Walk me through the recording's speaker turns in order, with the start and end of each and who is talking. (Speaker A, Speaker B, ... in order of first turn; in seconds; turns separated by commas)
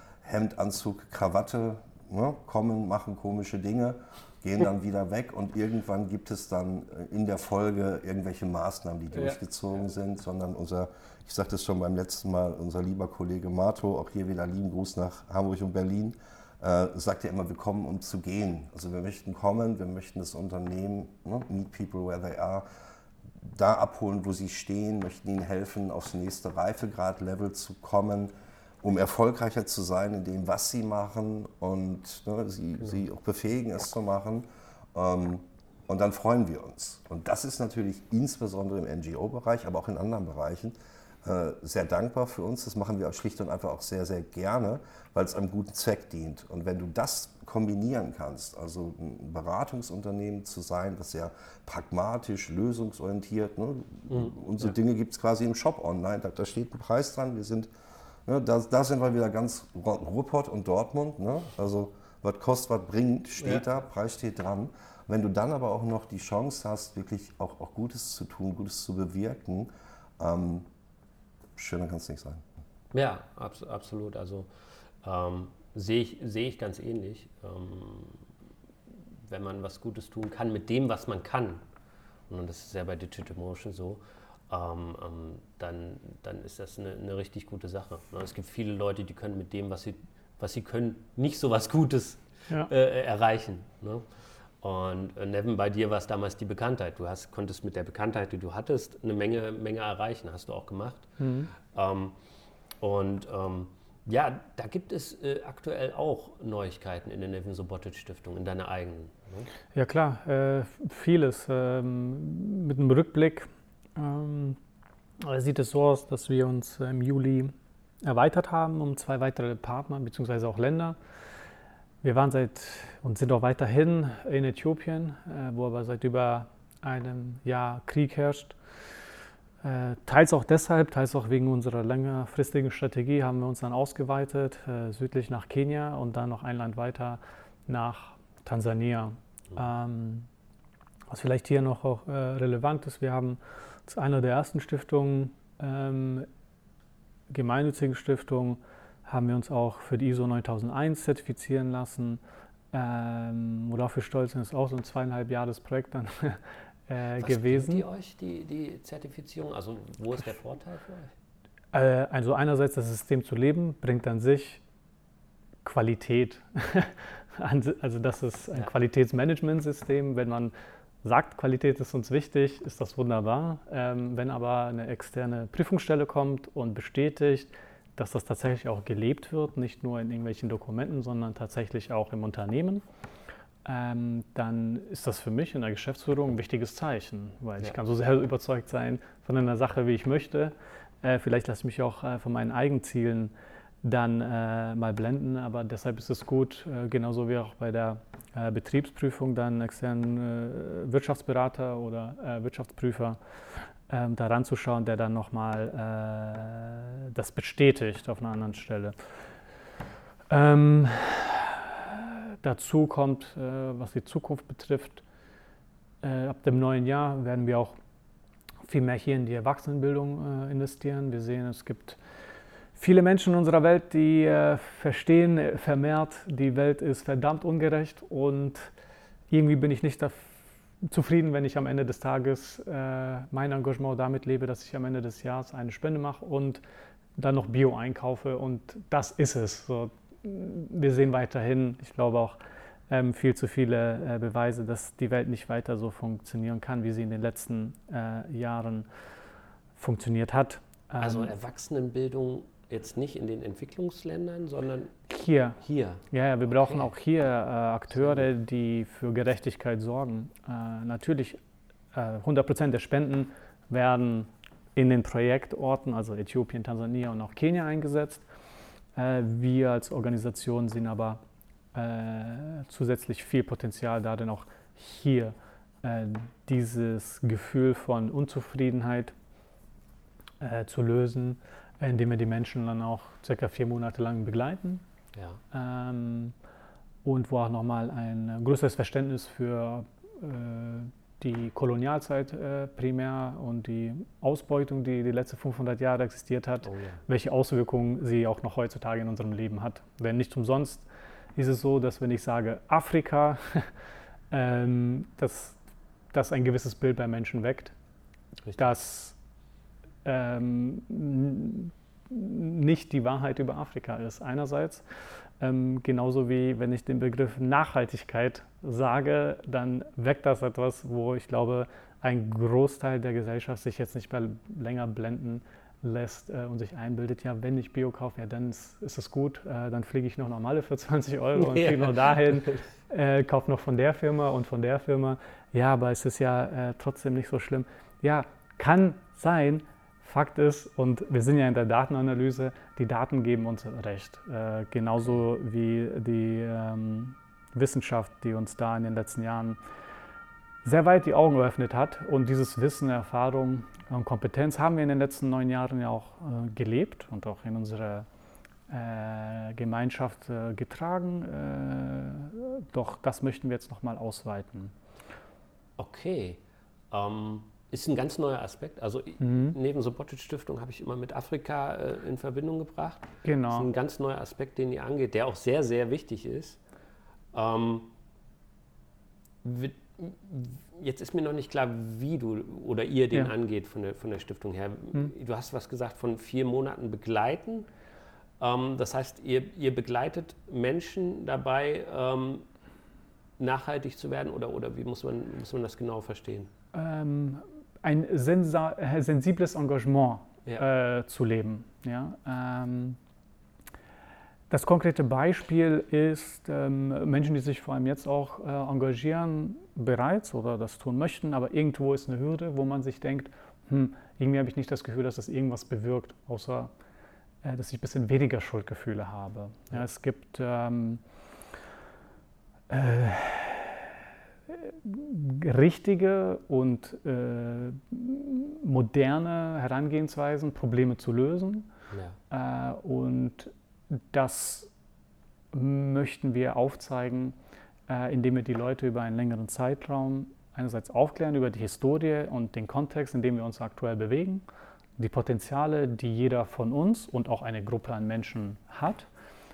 Speaker A: 0.2-22.7, Speaker B: 9.1-9.4, Speaker A: 23.4-57.7, Speaker B: 54.1-54.7, Speaker A: 58.2-70.7, Speaker A: 71.5-72.4, Speaker B: 72.9-74.5, Speaker B: 75.0-78.2, Speaker B: 79.3-81.6, Speaker B: 82.3-94.0, Speaker B: 94.6-102.1, Speaker C: 101.2-101.5, Speaker B: 102.8-109.5, Speaker C: 109.7-114.6, Speaker C: 115.2-121.0, Speaker C: 122.0-128.6, Speaker C: 129.6-140.3, Speaker C: 141.1-146.3, Speaker C: 147.3-152.2, Speaker C: 152.7-157.8, Speaker B: 157.2-161.1, Speaker C: 161.7-164.6, Speaker C: 165.6-170.5, Speaker C: 171.0-182.8, Speaker C: 183.6-193.3, Speaker C: 193.8-203.2, Speaker C: 203.9-208.9, Speaker C: 210.3-215.0, Speaker C: 216.0-217.8, Speaker C: 218.6-222.0, Speaker C: 222.8-228.7, Speaker C: 229.3-236.6, Speaker C: 237.2-242.4, Speaker C: 242.9-248.9, Speaker C: 249.8-251.3, Speaker B: 251.0-254.9, Speaker C: 255.1-255.6, Speaker B: 255.6-256.9, Speaker C: 256.1-261.4, Speaker B: 258.0-258.2, Speaker C: 261.9-268.2, Speaker C: 268.9-271.2, Speaker C: 271.7-279.1, Speaker C: 280.4-284.8, Speaker B: 285.1-285.4, Speaker C: 285.5-286.3, Speaker C: 287.0-303.7, Speaker B: 296.6-297.0, Speaker C: 304.3-305.6, Speaker C: 306.1-307.7, Speaker B: 308.4-308.7, Speaker C: 308.6-309.1, Speaker C: 310.0-314.8, Speaker C: 315.4-349.6, Speaker B: 331.4-332.6, Speaker C: 350.6-358.1, Speaker C: 358.7-364.7, Speaker B: 365.8-366.4, Speaker B: 366.9-376.6, Speaker C: 369.2-369.6, Speaker C: 373.2-373.7, Speaker B: 377.3-377.9, Speaker B: 379.4-387.7, Speaker B: 388.4-392.4, Speaker B: 393.4-396.5, Speaker C: 396.7-403.0, Speaker C: 404.5-416.7, Speaker C: 417.4-421.0, Speaker C: 422.7-423.8, Speaker C: 424.5-431.7, Speaker B: 431.9-432.2, Speaker C: 432.3-434.7, Speaker C: 435.5-437.4, Speaker C: 437.9-444.4, Speaker C: 445.0-449.1